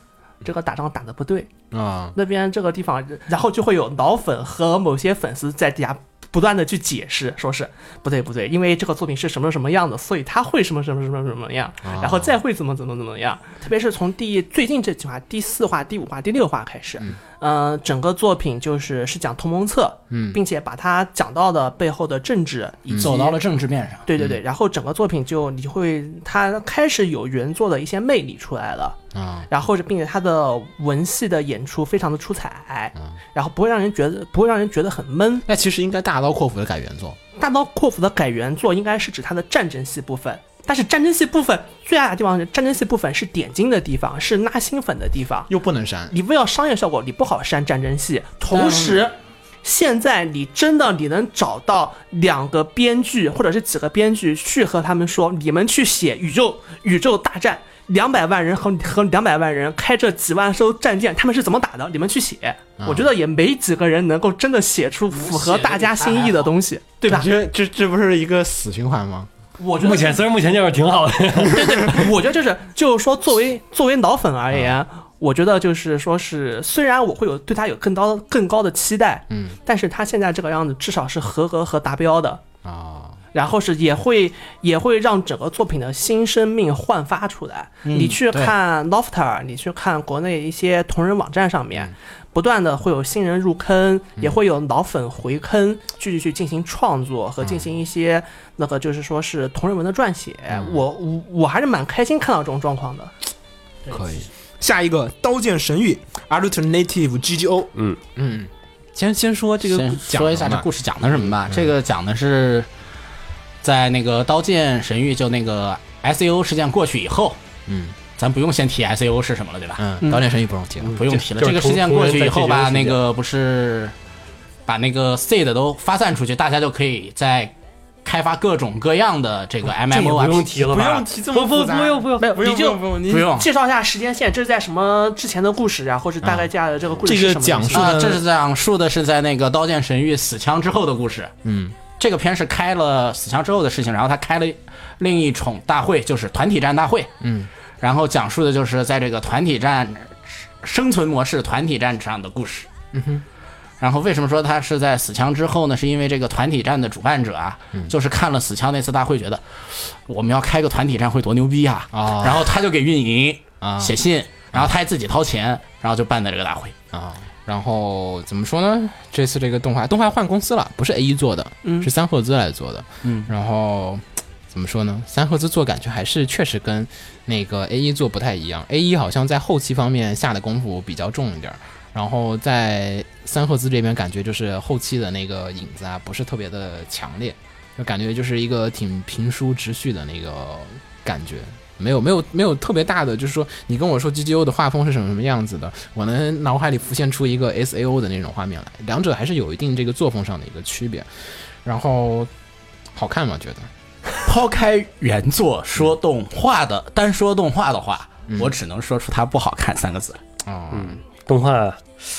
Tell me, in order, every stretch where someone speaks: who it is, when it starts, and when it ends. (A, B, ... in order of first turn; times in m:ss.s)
0:00.4-0:01.5 A
0:01.7-0:02.1 B
0:02.1-0:23.4 A
0:11.8-0:12.3 B
0:20.1-0:20.4 B
0:22.9-0:23.1 B
0:23.0-0:24.1 C
0:24.0-0:29.0 A
0:29.1-0:29.5 B
0:29.5-0:35.4 A
0:35.5-0:37.2 B
0:37.4-0:45.5 A
0:45.5-0:46.1 B
0:46.1-1:07.3 A
0:48.5-0:49.0 B
1:02.8-1:03.1 B
1:05.1-1:06.5 C
1:07.0-1:09.3 B
1:09.6-1:10.2 A
1:09.8-1:12.1 D
1:11.4-1:22.4 A
1:19.3-1:19.6 B
1:22.6-1:23.2 B
1:23.3-1:43.1 A
1:27.8-1:28.5 C
1:37.4-1:37.7 B
1:40.5-1:40.8 B
1:43.8-1:44.3 C
1:43.9-1:50.7 B
1:49.7-1:52.7 C
1:51.5-1:51.7 B
1:53.6-1:57.4 C
1:57.7-1:58.0 B
1:58.1-1:59.8 C
1:59.8-2:01.0 B
2:00.8-2:03.0 D
2:00.9-2:03.9 C
2:04.7-2:07.5 C
2:08.0-2:10.5 C
2:09.7-2:12.3 D
2:10.5-2:13.4 B
2:12.2-2:18.0 A
2:13.1-2:13.5 C
2:16.2-2:16.5 B
2:17.0-2:18.2 B
2:17.7-2:21.3 C
2:21.4-2:21.8 B
2:22.0-2:27.1 C
2:27.2-2:27.5 B
2:27.8-2:32.7 C
2:32.9-2:33.2 B
2:33.8-2:46.7 C
2:41.9-2:42.5 B
2:43.6-2:44.0 B
2:46.9-3:21.1 B
2:51.6-2:51.9 A
2:53.0-2:53.3 C
3:21.6-3:22.3 B
3:22.9-3:23.7 B
3:24.2-3:30.2 C
3:28.3-3:28.5 B
3:30.4-3:31.0 B
3:30.7-3:31.8 D